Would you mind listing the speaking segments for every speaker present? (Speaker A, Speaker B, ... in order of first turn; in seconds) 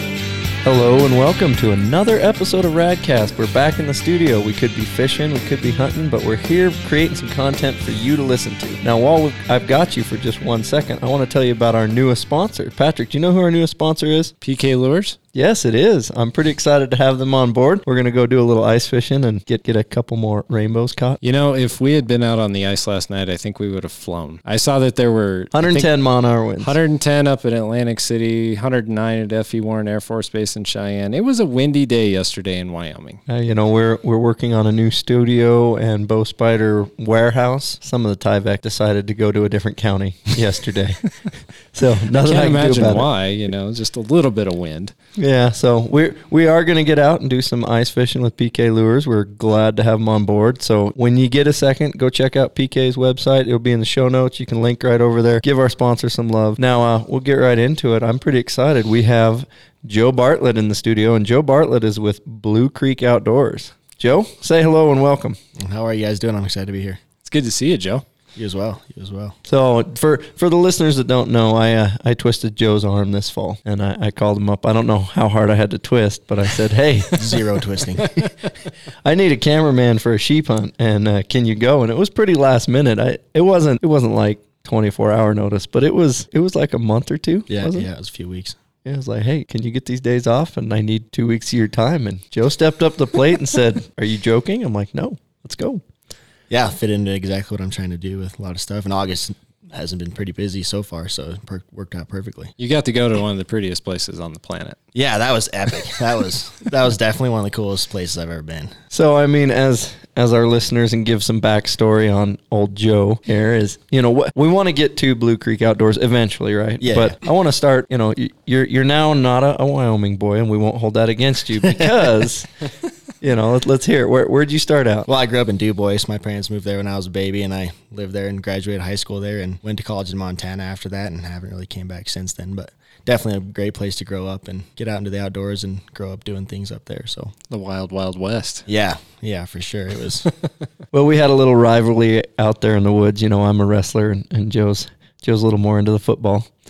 Speaker A: 0.6-14.3, 15.3-21.2, 25.5-26.7, 33.3-41.1, 41.7-43.1, 45.1-65.4, 69.5-77.2, 79.0-87.9, 88.8-95.8, 108.9-122.5, 123.2-125.1, 140.9-146.5
Speaker B: 14.4-15.2, 21.2-25.9, 26.6-33.2, 42.1-44.9, 67.2-68.0, 102.6-104.8, 137.5-138.7
Speaker C: 65.5-67.0, 68.3-69.3, 77.2-78.3, 87.5-88.6, 96.5-102.5, 104.9-108.7, 116.8-117.2, 121.6-122.1, 125.1-137.3, 138.7-140.3